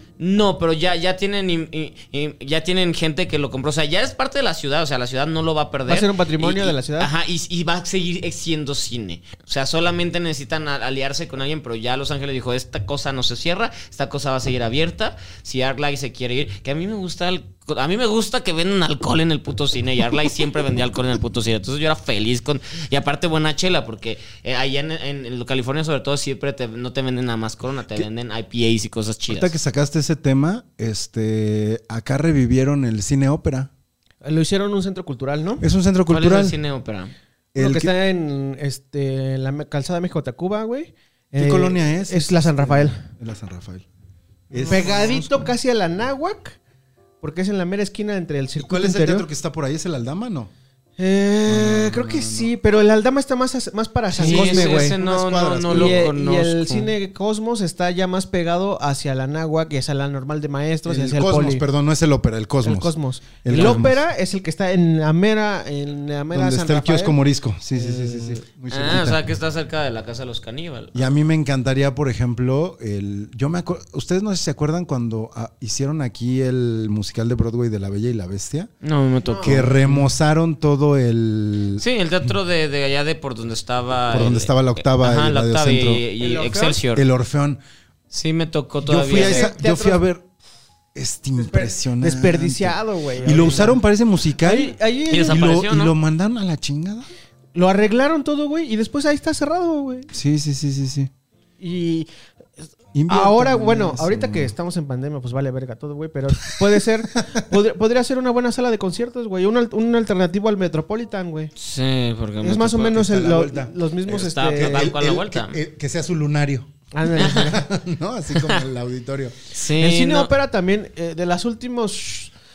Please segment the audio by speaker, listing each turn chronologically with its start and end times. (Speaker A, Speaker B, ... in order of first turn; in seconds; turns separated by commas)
Speaker A: 0.2-29.5, Speaker B: 5.9-7.1, Speaker C: 29.3-33.7, Speaker B: 34.2-35.6, Speaker C: 35.6-36.6, Speaker A: 36.1-37.1, Speaker C: 37.5-37.9, Speaker B: 37.6-43.0, Speaker C: 41.4-43.9, Speaker C: 44.5-45.3, Speaker B: 44.6-46.6, Speaker B: 47.2-49.3, Speaker C: 48.6-50.5, Speaker B: 51.0-55.0, Speaker C: 51.5-52.5, Speaker C: 54.1-56.1, Speaker A: 54.2-56.9, Speaker B: 55.7-61.6, Speaker C: 60.9-64.0, Speaker B: 62.6-67.2, Speaker A: 63.5-63.9, Speaker C: 66.3-69.2, Speaker B: 67.8-68.4, Speaker A: 68.7-71.0, Speaker C: 70.9-78.7, Speaker A: 78.8-80.0, Speaker B: 79.2-79.7, Speaker C: 79.4-81.8, Speaker A: 81.8-87.0, Speaker C: 84.1-86.0, Speaker B: 86.2-86.8, Speaker C: 86.9-87.6, Speaker A: 88.1-89.5, Speaker C: 88.9-90.3, Speaker B: 89.1-90.0, Speaker C: 91.0-97.1, Speaker B: 91.4-93.8, Speaker B: 94.4-95.5, Speaker A: 95.1-95.9, Speaker B: 97.5-100.1, Speaker C: 100.1-101.1, Speaker B: 101.6-102.1, Speaker B: 102.6-111.5, Speaker C: 102.9-104.5, Speaker A: 111.6-113.1, Speaker B: 112.4-114.9, Speaker C: 112.9-113.7, Speaker A: 114.1-115.6, Speaker C: 114.5-119.5, Speaker B: 116.9-117.7, Speaker A: 117.2-117.5, Speaker A: 118.3-118.6, Speaker A: 119.5-120.3, Speaker B: 119.8-122.3